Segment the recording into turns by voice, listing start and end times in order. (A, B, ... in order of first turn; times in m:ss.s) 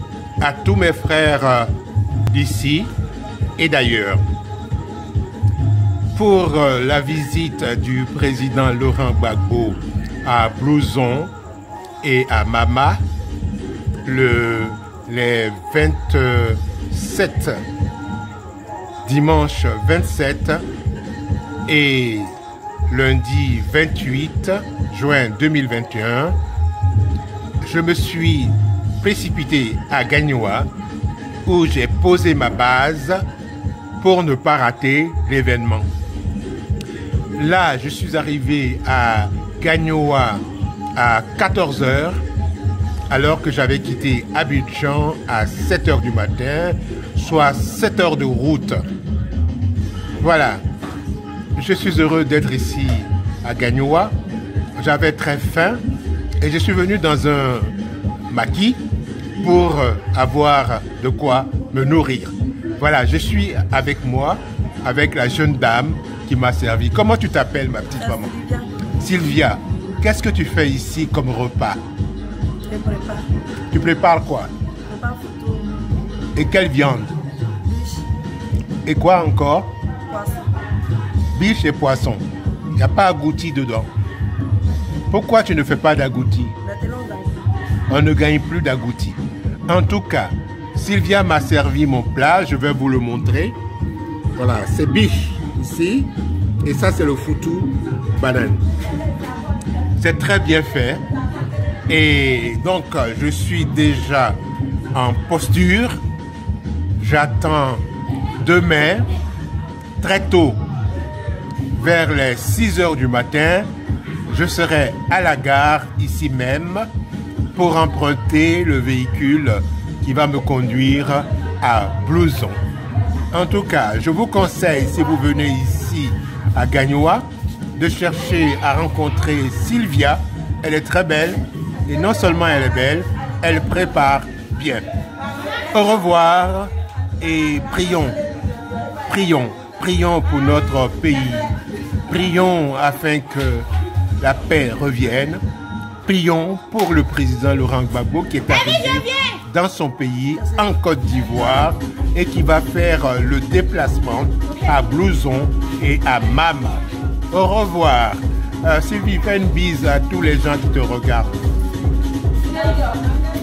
0:00.4-0:01.7 A
0:02.3-0:02.9 A
0:03.6-0:04.2 A
0:06.1-0:11.3 A
0:12.0-0:13.0 A
0:14.0-0:17.6 A
0:19.0-0:20.6 A
0:21.7-0:22.3 A
0:22.9-0:26.4 A
0:27.6-0:30.7 A
0:31.5-0:33.2 A
0:34.0-0:35.9 A
0:37.4-0:40.4 A
0:41.0-0:42.2 A
0:43.1-0:48.8 A
0:50.2-0:50.6 A
0:51.6-0:54.1 A
0:54.8-0:55.8 A
0:56.4-0:57.8 A
0:58.3-0:58.8 A
0:59.4-1:08.3 A
1:08.0-1:08.7 B
1:09.0-1:11.8 A
1:12.7-1:13.3 B
1:13.7-1:14.5 A
1:14.9-1:15.8 B
1:16.4-1:17.2 A
1:17.7-1:18.1 B
1:18.8-1:19.7 A
1:20.1-1:20.5 B
1:21.3-1:22.2 A
1:22.8-1:23.9 A
1:25.1-1:26.6 A
1:26.6-1:27.4 B
1:27.9-1:33.6 A
1:34.4-1:36.1 A
1:36.6-1:38.6 A
1:40.0-1:41.0 A
1:41.9-1:44.4 A
1:44.9-1:46.0 A
1:47.0-1:47.8 A
1:48.4-1:49.1 A
1:50.0-1:50.6 A
1:51.8-1:53.7 A
1:54.3-1:56.9 A
1:57.5-2:02.6 A
2:03.3-2:14.9 A
2:15.7-2:18.2 A
2:19.1-2:21.5 A
2:22.1-2:23.7 A
2:24.2-2:25.4 A
2:26.0-2:41.4 A